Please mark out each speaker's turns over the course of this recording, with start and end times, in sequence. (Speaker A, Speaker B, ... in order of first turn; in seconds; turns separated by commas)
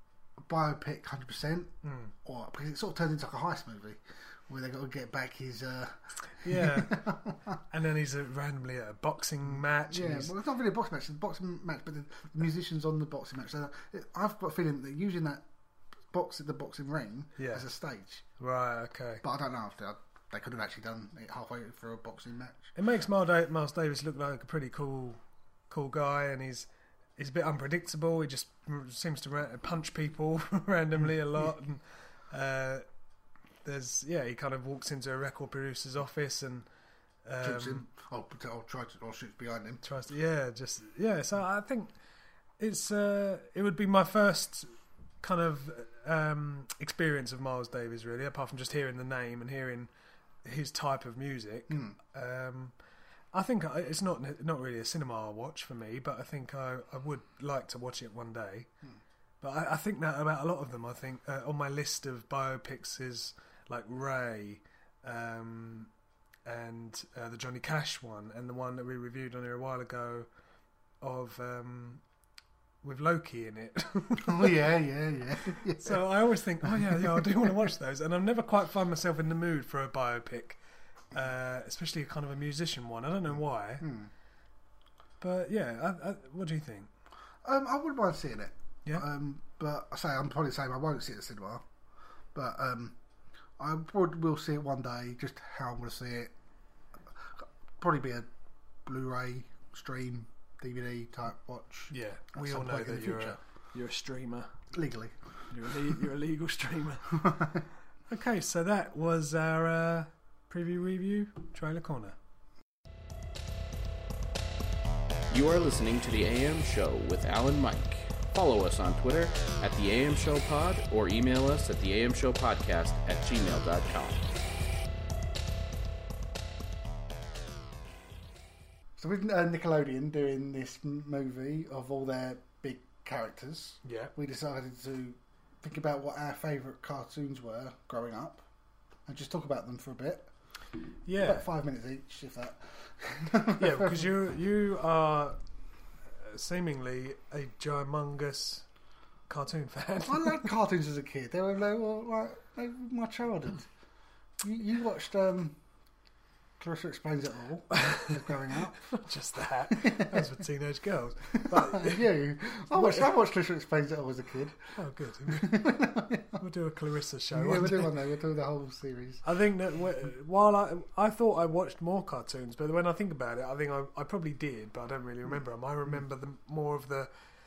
Speaker A: 0.4-7.6, Speaker B: 1.8-2.1, Speaker B: 6.4-7.1, Speaker B: 7.7-10.3, Speaker A: 9.9-15.4, Speaker A: 16.1-18.2, Speaker B: 17.4-17.6, Speaker B: 18.4-19.2, Speaker A: 19.2-22.7, Speaker B: 22.8-32.8, Speaker B: 33.6-36.6, Speaker B: 37.2-37.9, Speaker A: 37.4-39.8, Speaker B: 39.8-41.9, Speaker B: 42.6-49.9, Speaker B: 50.4-52.7, Speaker A: 51.7-51.9, Speaker B: 53.3-58.7, Speaker B: 59.4-65.9, Speaker B: 66.4-70.3, Speaker B: 71.0-72.0, Speaker B: 72.8-74.7, Speaker A: 74.2-76.0, Speaker B: 75.5-80.6, Speaker A: 76.6-77.5, Speaker B: 81.1-83.9, Speaker A: 83.8-84.1, Speaker B: 85.2-86.9, Speaker A: 87.4-91.6, Speaker A: 92.3-93.0, Speaker A: 93.6-96.3, Speaker A: 97.8-98.3, Speaker A: 98.8-103.4, Speaker B: 101.9-104.5, Speaker A: 104.7-105.2, Speaker B: 105.5-107.4, Speaker A: 107.2-107.6, Speaker B: 108.1-112.2, Speaker C: 115.3-124.3, Speaker A: 129.0-138.4, Speaker B: 133.8-134.1, Speaker A: 139.1-140.3, Speaker B: 141.0-141.4, Speaker A: 141.2-144.1, Speaker B: 143.6-145.4, Speaker B: 146.1-148.7, Speaker B: 149.3-150.5, Speaker A: 150.0-153.7, Speaker A: 154.4-155.6, Speaker A: 156.6-158.8, Speaker B: 157.7-158.2, Speaker B: 158.8-162.1, Speaker A: 159.7-160.2, Speaker A: 161.4-164.7, Speaker B: 162.7-163.1, Speaker B: 164.7-167.9, Speaker A: 165.3-166.4, Speaker A: 167.3-169.2, Speaker B: 169.2-177.1